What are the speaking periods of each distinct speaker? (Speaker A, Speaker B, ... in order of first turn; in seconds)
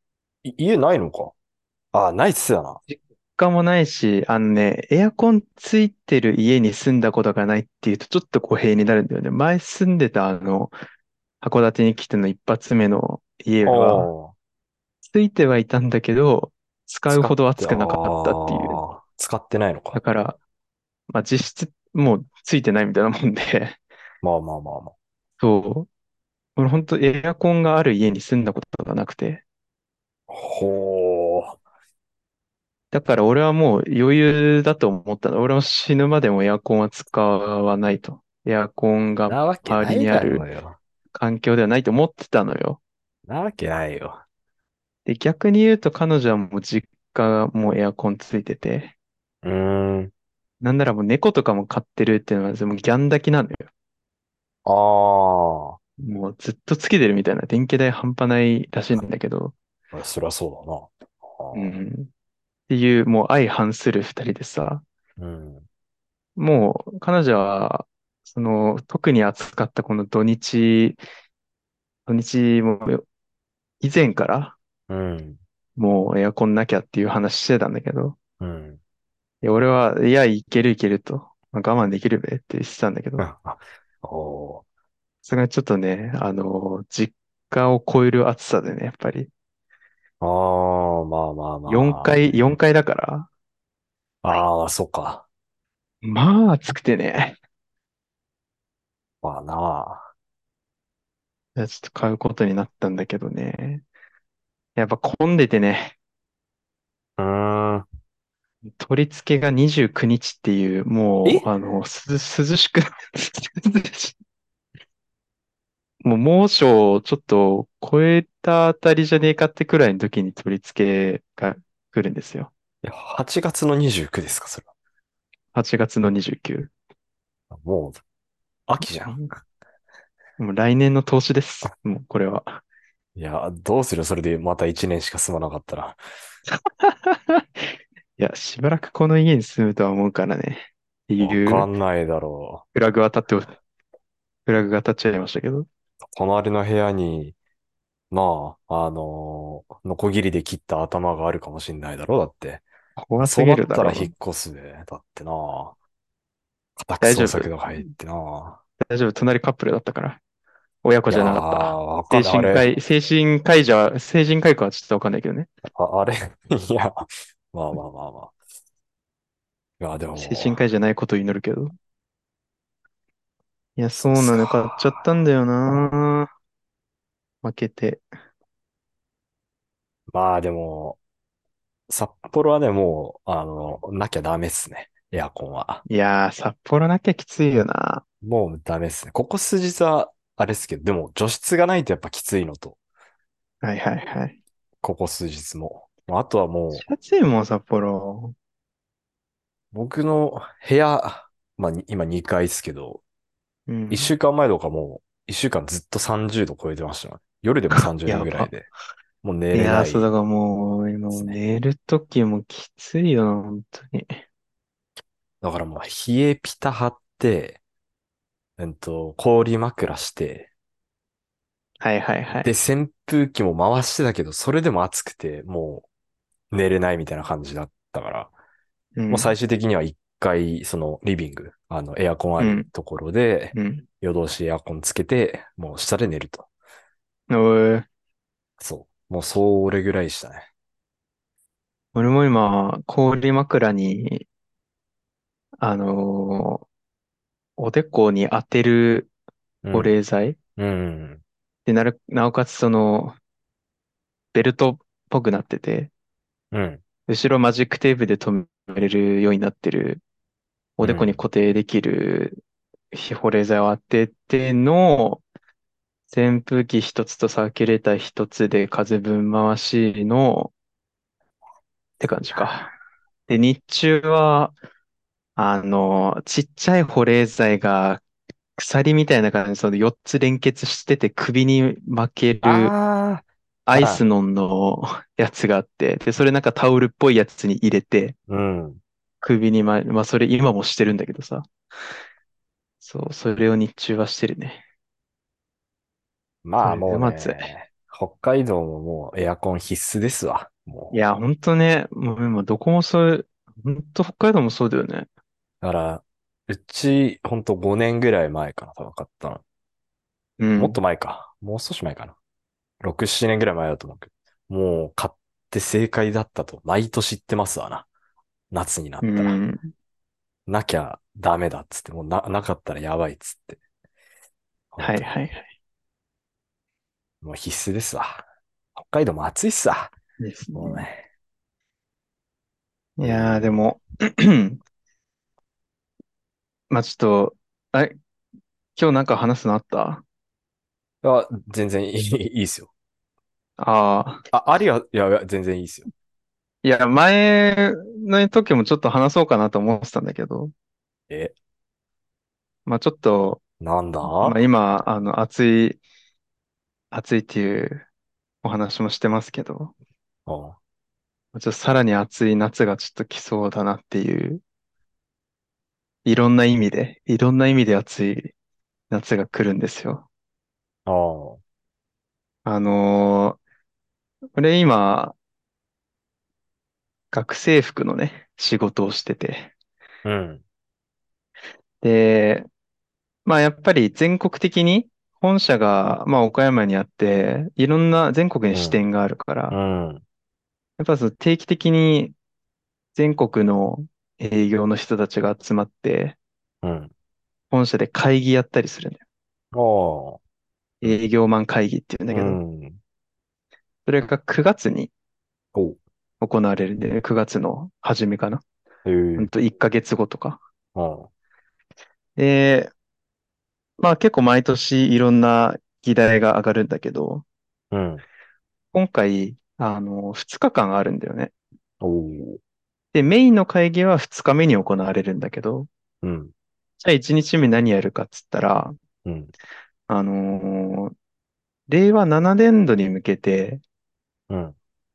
Speaker A: 0.4-1.3, 1.9-2.8, 13.7-14.3, 17.1-20.0, 24.2-24.9, 30.3-31.6, 39.3-40.8, 43.3-44.2, 49.4-50.1, 54.6-55.8, 59.9-61.8, 65.2-65.7, 74.9-75.4, 78.4-78.8, 83.2-84.6, 90.2-92.3, 94.2-95.2, 99.2-100.1, 107.2-107.9, 111.2-111.5, 122.8-124.7, 127.5-128.0, 128.7-129.2, 133.2-136.0, 141.2-142.7, 146.0-147.4, 148.1-152.7, 153.2-155.8, 156.8-158.6, 161.1-162.7, 165.7-168.3, 169.8-170.6, 174.1-175.0, 180.1-181.0, 181.9-185.8, 188.2-192.8, 194.8-196.8, 199.7-203.0, 203.9-208.7, 209.2-210.1, 215.4-217.6, 218.6-220.5, 222.4-225.9, 226.5-228.3, 229.1-236.5, 238.6-240.5, 249.6-249.9, 250.6-251.2, 256.5-256.8, 260.8-261.2, 282.4-284.0, 288.3-288.8, 296.4-300.9, 305.6-309.4, 310.6-312.1, 312.8-317.9, 318.5-319.4, 320.5-323.6, 324.7-325.2, 327.2-328.2, 328.8-329.9, 330.5-331.0, 333.0-333.5, 341.0-342.7, 344.3-345.9, 353.6-354.4, 360.3-360.6, 370.9-371.4, 380.0-380.4, 388.5-388.8, 389.5-390.0, 396.6-396.9, 399.5-400.2, 402.1-402.8, 408.9-409.3, 410.8-411.1, 417.7-418.0, 421.8-422.4, 426.0-426.3, 429.1-429.3, 434.3-434.6
Speaker B: 2.9-10.7, 11.4-14.1, 15.1-18.8, 19.9-20.4, 21.1-23.8, 25.4-25.9, 26.6-29.4, 32.9-40.5, 41.1-42.8, 45.1-48.9, 50.6-53.7, 56.0-59.5, 61.5-62.1, 62.7-64.8, 66.4-71.0, 72.1-73.0, 73.8-74.6, 75.8-78.2, 79.4-83.2, 85.2-89.3, 91.7-93.3, 96.0-97.4, 101.6-103.8, 104.8-106.0, 108.8-114.2, 116.0-122.5, 125.5-126.7, 128.8-129.3, 130.4-132.6, 136.8-137.7, 138.2-141.7, 142.7-143.5, 144.5-145.7, 153.1-154.1, 157.0-157.8, 158.8-160.2, 160.8-165.5, 170.2-171.8, 173.8-176.3, 177.4-178.0, 185.9-188.0, 193.6-194.4, 196.7-198.3, 203.7-204.1, 207.7-208.5, 209.5-214.2, 221.8-222.5, 229.0-229.3, 232.4-232.7, 233.6-233.8, 237.3-237.9, 241.9-244.3, 245.6-246.7, 247.6-249.1, 249.7-250.4, 251.7-253.2, 254.3-255.9, 257.1-260.0, 260.8-262.4, 262.9-265.2, 266.1-270.5, 272.0-272.7, 273.3-274.6, 275.4-278.0, 278.6-282.7, 283.7-288.1, 289.2-291.5, 292.8-294.6, 296.6-297.5, 300.9-305.1, 310.4-310.8, 319.0-319.7, 324.8-325.5, 330.2-330.9, 333.0-334.6, 336.7-337.9, 338.8-340.0, 343.6-344.2, 346.6-350.5, 352.7-353.4, 354.0-355.8, 356.9-357.9, 358.4-359.7, 361.3-364.4, 366.1-368.3, 368.9-370.1, 372.4-373.4, 374.4-375.2, 377.1-379.5, 381.8-382.5, 383.2-389.6, 390.8-392.1, 392.9-396.2, 397.5-399.0, 400.8-402.4, 403.9-404.9, 406.2-408.4, 409.2-410.4, 412.2-412.7, 413.8-417.2, 418.7-421.3, 422.9-425.7, 426.8-428.8, 429.9-430.9, 431.7-433.6